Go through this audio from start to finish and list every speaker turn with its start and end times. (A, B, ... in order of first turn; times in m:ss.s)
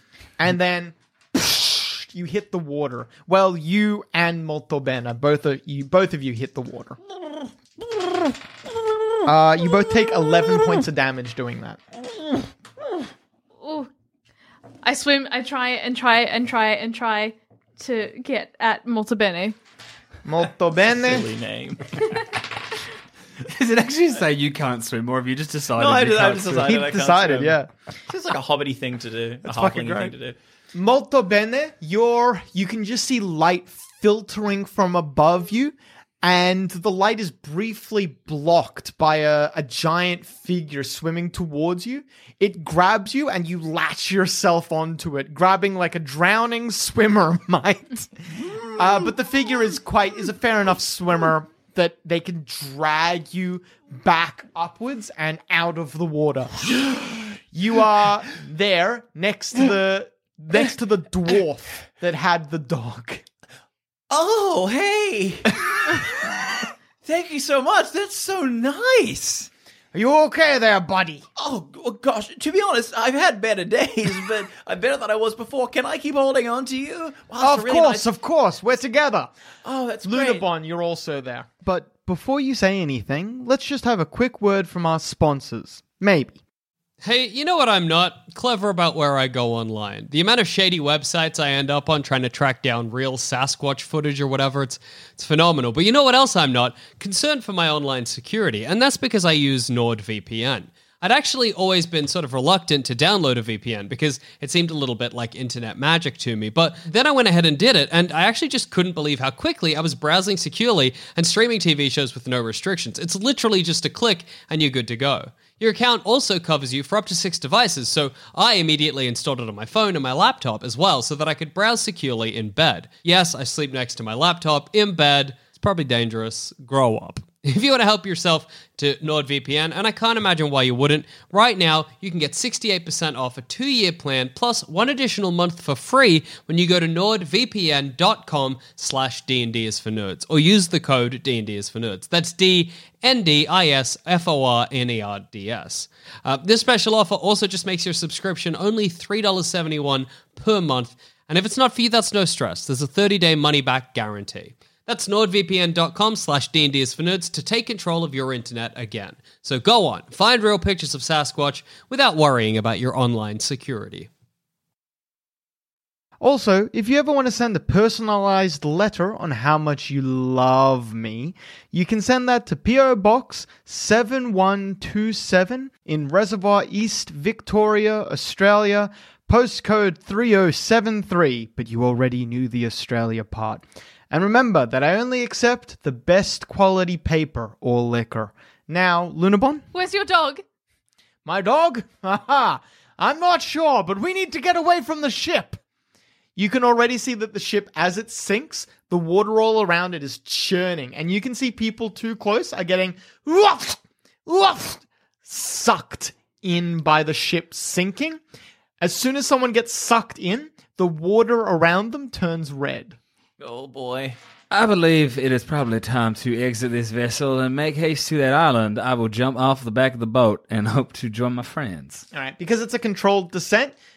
0:00.4-0:07.0 A
0:09.2-0:11.8 A
0:13.6-0:13.9 B
0:14.8-0:19.6 B
0:20.2-0:21.3 A
0:20.8-0:22.0 C
0:23.4-0:26.7 D
0:25.8-0:27.6 C
0:26.6-0:27.7 A
0:28.1-0:30.4 C
0:29.4-0:30.1 A
0:30.7-0:48.1 A
0:48.7-0:56.7 A
0:57.5-1:03.2 A
1:04.1-1:06.3 C
1:07.0-1:09.5 C
1:09.9-1:11.2 A
1:11.4-1:18.0 C
1:17.4-1:19.3 A
1:19.6-1:20.4 C
1:20.0-1:26.4 A
1:27.0-2:44.1 E
2:46.2-3:09.6 A
3:09.7-3:10.4 B
3:11.2-3:15.6 A
3:16.4-3:28.2 A
3:28.8-3:33.0 A
3:33.4-3:34.2 C
3:34.5-3:42.0 D
3:42.1-3:43.7 A